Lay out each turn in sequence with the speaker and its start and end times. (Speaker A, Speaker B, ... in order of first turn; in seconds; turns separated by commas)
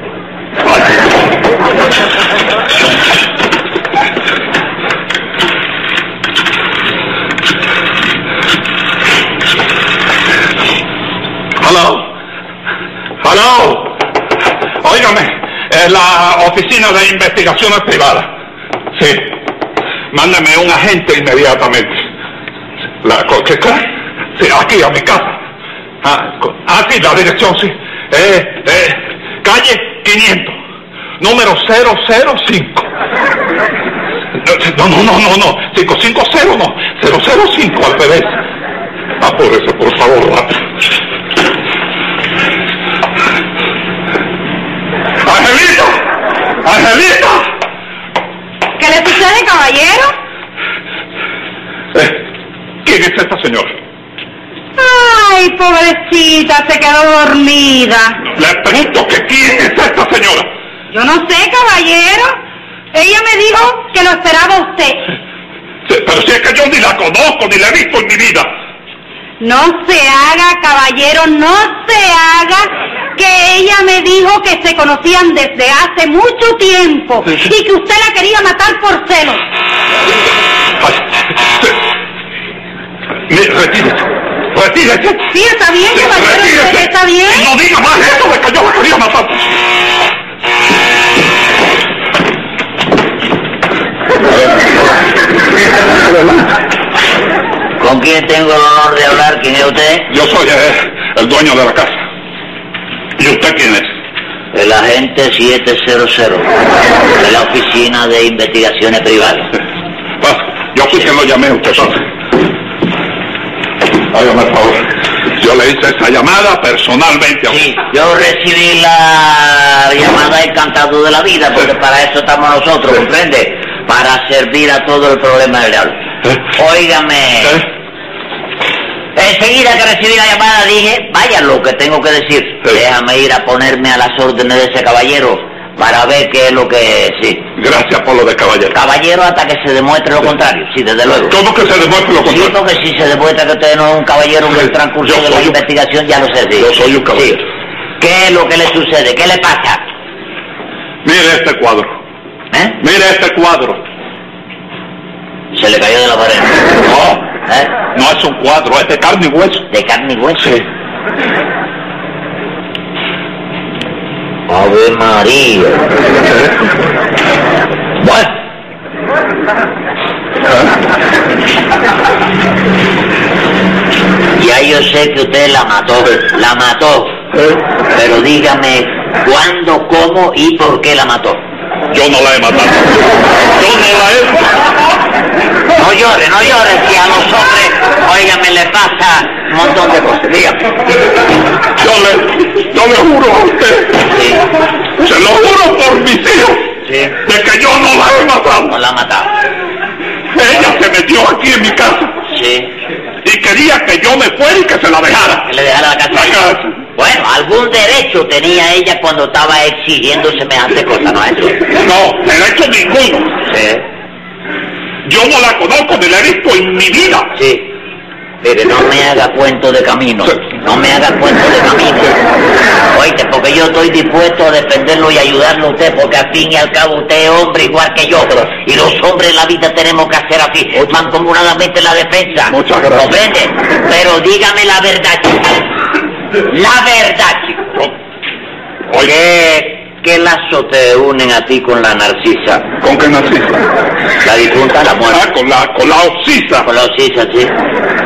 Speaker A: 11.6-12.1, Speaker A: 13.2-14.0, Speaker A: 14.8-18.3, Speaker A: 18.9-19.4, Speaker A: 20.1-22.0, Speaker A: 23.0-25.4, Speaker A: 26.0-30.5, Speaker A: 31.2-32.9, Speaker A: 34.4-38.4, Speaker A: 39.2-40.6, Speaker A: 45.2-46.0, Speaker A: 46.6-47.5, Speaker B: 48.8-50.1, Speaker A: 51.9-52.2, Speaker A: 52.8-53.7, Speaker B: 54.8-58.2, Speaker A: 58.3-60.5, Speaker B: 60.9-62.4, Speaker B: 62.9-65.1, Speaker A: 65.9-68.5, Speaker B: 69.4-79.4, Speaker A: 80.8-81.7, Speaker A: 83.3-85.3, Speaker B: 85.3-87.5, Speaker A: 85.9-89.6, Speaker A: 94.2-94.8, Speaker A: 96.0-96.5, Speaker C: 97.8-100.1, Speaker A: 100.1-102.0, Speaker A: 103.2-103.9, Speaker C: 104.5-106.5, Speaker C: 107.1-109.5, Speaker A: 110.2-112.0, Speaker A: 114.1-117.6, Speaker C: 117.5-127.7, Speaker C: 129.1-137.5, Speaker A: 137.6-138.8, Speaker C: 138.7-141.4, Speaker A: 141.3-142.5, Speaker C: 142.2-147.4, Speaker A: 144.6-145.6, Speaker A: 146.6-147.4, Speaker C: 148.0-149.9, Speaker A: 151.0-151.9, Speaker C: 152.5-152.8, Speaker A: 152.8-153.8, Speaker C: 155.5-156.8, Speaker A: 156.8-157.3, Speaker C: 157.4-157.7, Speaker A: 157.9-159.7, Speaker C: 159.7-160.5, Speaker A: 160.4-160.6, Speaker C: 164.5-165.9, Speaker A: 166.2-166.5, Speaker C: 168.0-168.3, Speaker C: 174.3-177.2, Speaker A: 177.3-177.6, Speaker C: 177.9-181.4, Speaker A: 181.9-184.6, Speaker C: 185.8-190.7, Speaker A: 191.8-194.1, Speaker C: 194.0-194.4, Speaker A: 195.0-198.8, Speaker C: 196.8-197.2, Speaker C: 198.7-199.3, Speaker A: 200.3-202.2, Speaker C: 202.3-202.7, Speaker A: 203.2-205.5, Speaker C: 205.4-211.6, Speaker A: 206.1-206.7, Speaker A: 211.7-213.4, Speaker C: 213.4-213.8, Speaker A: 215.0-217.3, Speaker C: 217.3-217.7, Speaker C: 218.4-222.2, Speaker C: 222.9-235.6, Speaker A: 232.5-233.2, Speaker C: 236.4-237.8, Speaker C: 238.9-242.7, Speaker A: 242.8-243.7, Speaker C: 244.2-245.2, Speaker A: 245.1-246.7, Speaker C: 246.6-247.6